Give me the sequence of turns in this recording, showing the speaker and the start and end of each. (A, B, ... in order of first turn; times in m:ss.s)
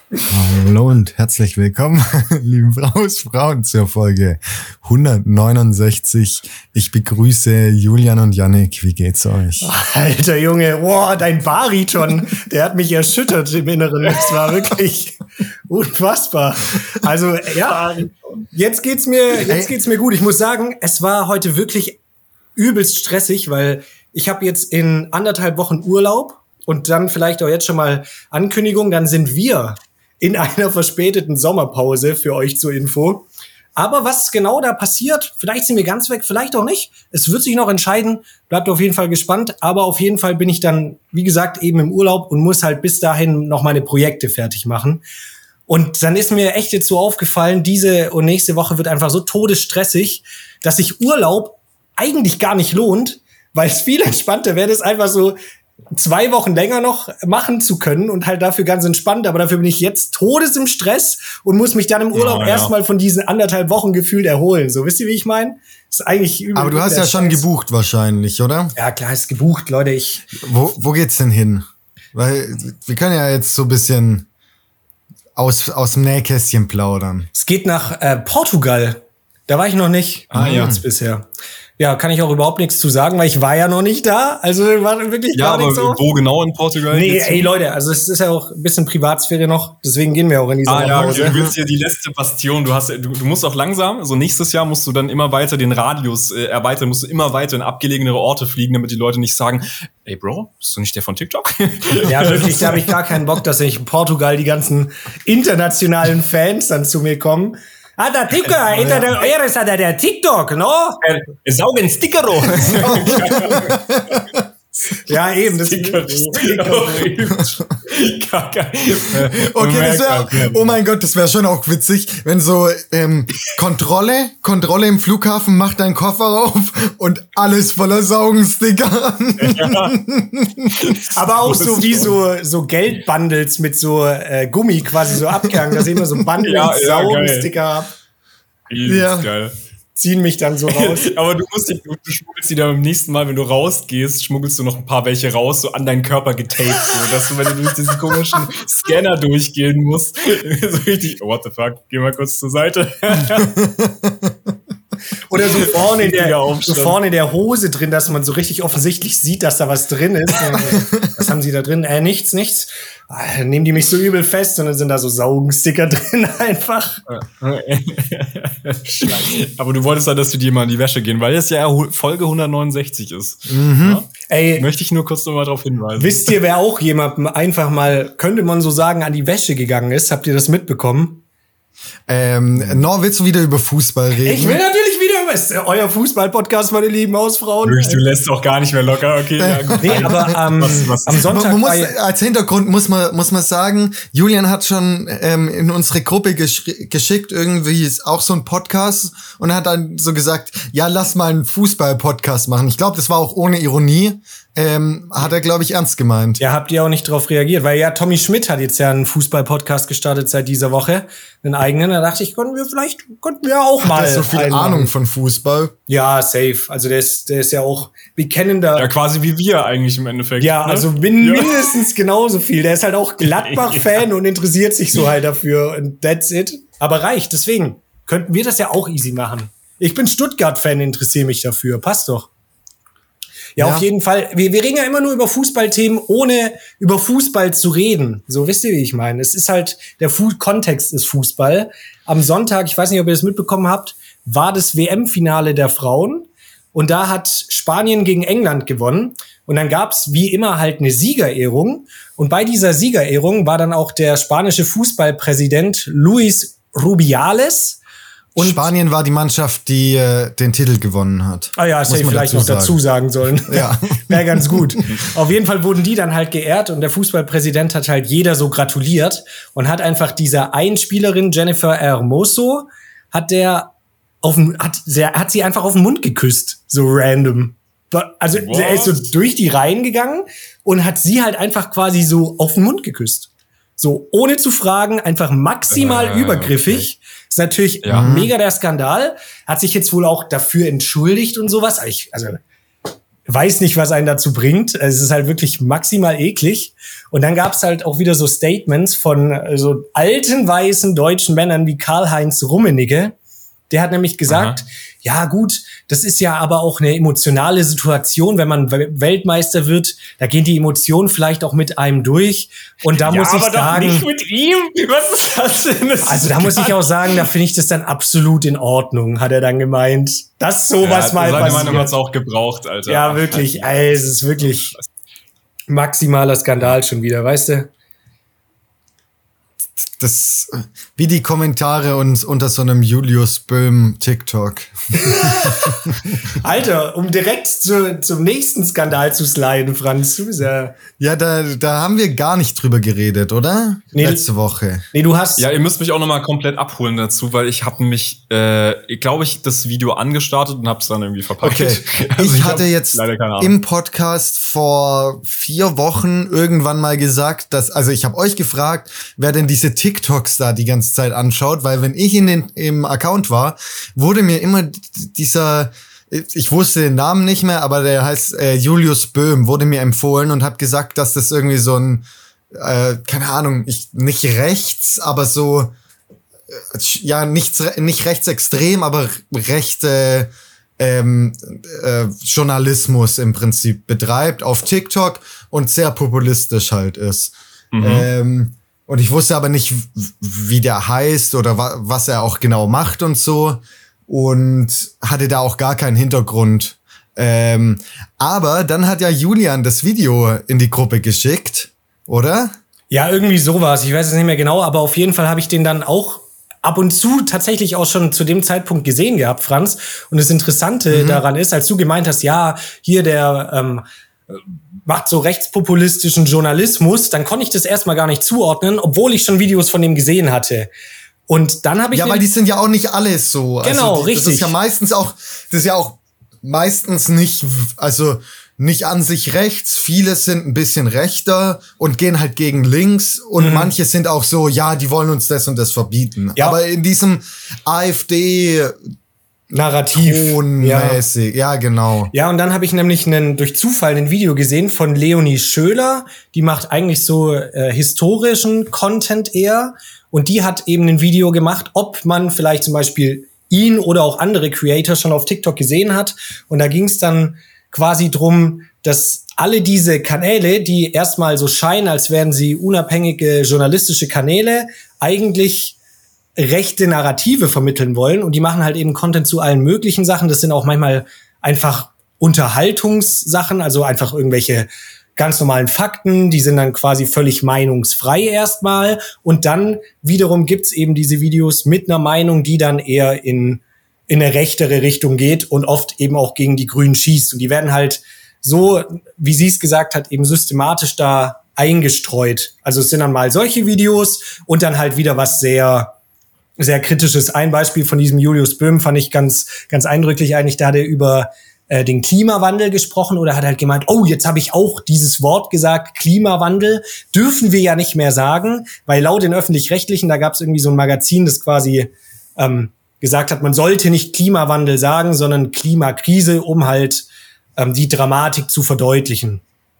0:00.3-0:09.7 A
0:09.6-0:22.0 B
0:19.4-0:19.7 A
0:22.6-0:45.0 B
0:45.7-0:55.4 B
0:55.9-1:07.4 B
1:02.1-1:02.7 C
1:06.5-1:08.7 A
1:08.8-1:10.3 B
1:10.4-1:14.3 A
1:15.4-1:17.3 A
1:17.3-1:26.0 B
1:20.3-1:20.8 C
1:20.3-1:20.8 A
1:25.3-1:27.5 C
1:26.9-1:31.4 B
1:30.7-1:43.1 C
1:31.1-1:31.6 A
1:42.0-1:51.0 B
1:48.7-1:49.1 A
1:51.0-1:53.8 C
1:52.6-1:54.4 A
1:52.7-1:53.4 B
1:55.0-1:57.1 B
1:55.1-2:00.8 C
1:59.1-2:10.8 A
2:09.4-2:09.9 C
2:10.7-2:12.2 C
2:11.1-2:17.9 B
2:15.7-2:16.0 A
2:16.4-2:17.5 C
2:18.7-2:19.5 C
2:18.8-2:19.3 A
2:20.0-2:21.1 B
2:20.7-2:33.6 C
2:33.3-2:34.4 A
2:35.3-2:47.0 B
2:35.3-2:37.0 C
2:40.8-2:41.1 A
2:47.1-2:56.3 C
2:48.9-2:49.3 B
2:53.5-2:54.0 A
2:54.3-2:54.6 B
2:56.0-3:01.2 B
3:02.1-3:04.6 A
3:02.6-3:02.8 C
3:04.2-3:08.0 B
3:07.6-3:11.3 C
3:09.4-3:10.4 A
3:09.8-3:11.9 B
3:11.1-3:26.4 A
3:26.4-3:34.9 B
3:33.8-3:35.7 A
3:35.9-3:38.9 B
3:38.8-3:41.7 C
3:40.4-3:52.3 B
3:43.2-3:44.0 C
3:53.6-4:17.8 B
3:53.6-3:53.9 A
4:18.4-4:22.8 A
4:18.4-4:18.7 B
4:21.6-4:52.4 B
4:23.5-4:24.8 A
4:38.3-4:39.1 C
4:45.7-4:46.9 C
4:47.8-4:48.1 C
4:47.9-4:48.3 A
4:53.3-5:03.1 B
5:03.7-5:14.1 B
5:04.3-5:04.6 C
5:12.9-5:17.3 C
5:16.0-5:21.9 B
5:20.8-5:23.7 C
5:22.8-5:24.8 B
5:25.7-5:27.7 B
5:29.8-5:35.7 A
5:35.0-5:35.9 B
5:36.4-5:40.7 B
5:41.0-5:44.8 A
5:43.9-5:44.2 B
5:44.9-5:45.4 B
5:45.4-5:53.5 C
5:51.4-6:15.7 A
6:16.5-6:42.5 A
6:27.7-6:28.1 C
6:42.9-7:00.7 B
6:50.9-6:51.2 A
7:01.3-7:02.2 B
7:01.9-7:18.8 A
7:03.6-7:04.5 B
7:13.4-7:13.7 B
7:19.5-7:21.0 B
7:19.9-7:22.1 A
7:22.1-7:45.8 B
7:46.4-8:15.9 B
8:16.6-8:39.4 B